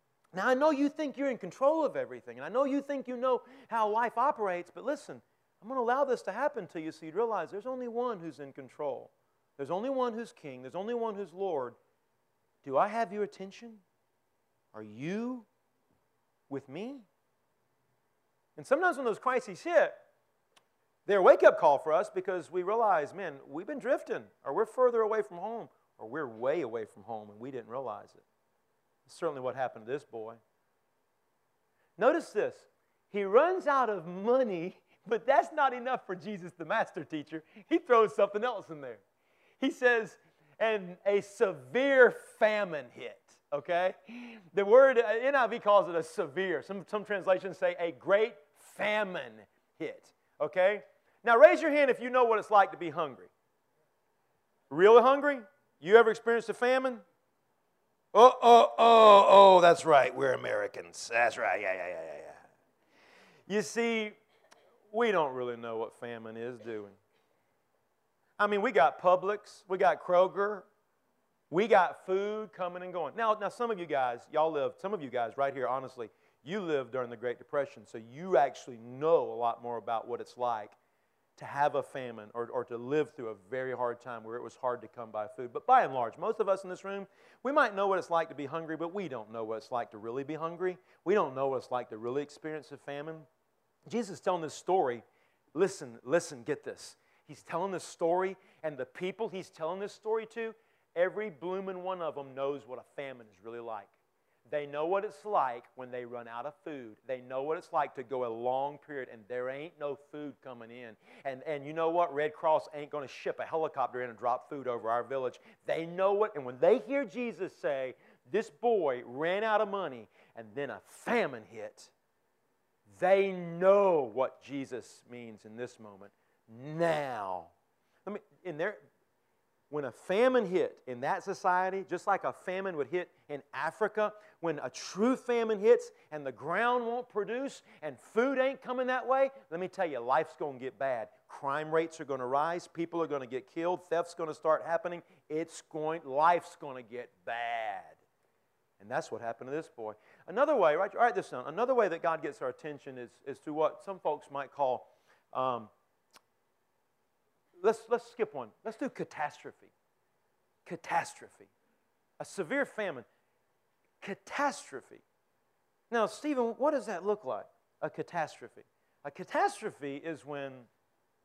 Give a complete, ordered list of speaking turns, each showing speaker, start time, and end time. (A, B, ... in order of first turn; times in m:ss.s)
0:00.3-0:11.8 A
0:12.6-0:13.8 A
0:14.7-0:15.5 A
0:16.5-0:17.0 A
0:18.6-0:19.9 A
0:21.0-0:28.2 A
0:29.0-0:30.4 A
0:32.0-0:39.0 A
0:39.6-0:53.3 A
0:54.7-0:57.0 A
0:58.1-1:02.4 A
1:03.5-1:04.2 A
1:04.9-1:07.0 A
1:08.4-1:10.6 A
1:11.5-1:20.8 A
1:21.4-1:33.3 A
1:33.9-1:35.0 A
1:35.5-1:43.9 A
1:44.5-2:01.9 A
2:02.9-2:07.5 A
2:08.0-2:08.8 A
2:09.7-2:28.0 A
2:28.8-2:35.7 A
2:37.6-2:39.7 A
2:40.6-2:41.5 A
2:42.2-2:43.1 A
2:44.0-2:45.0 A
2:45.9-2:50.7 A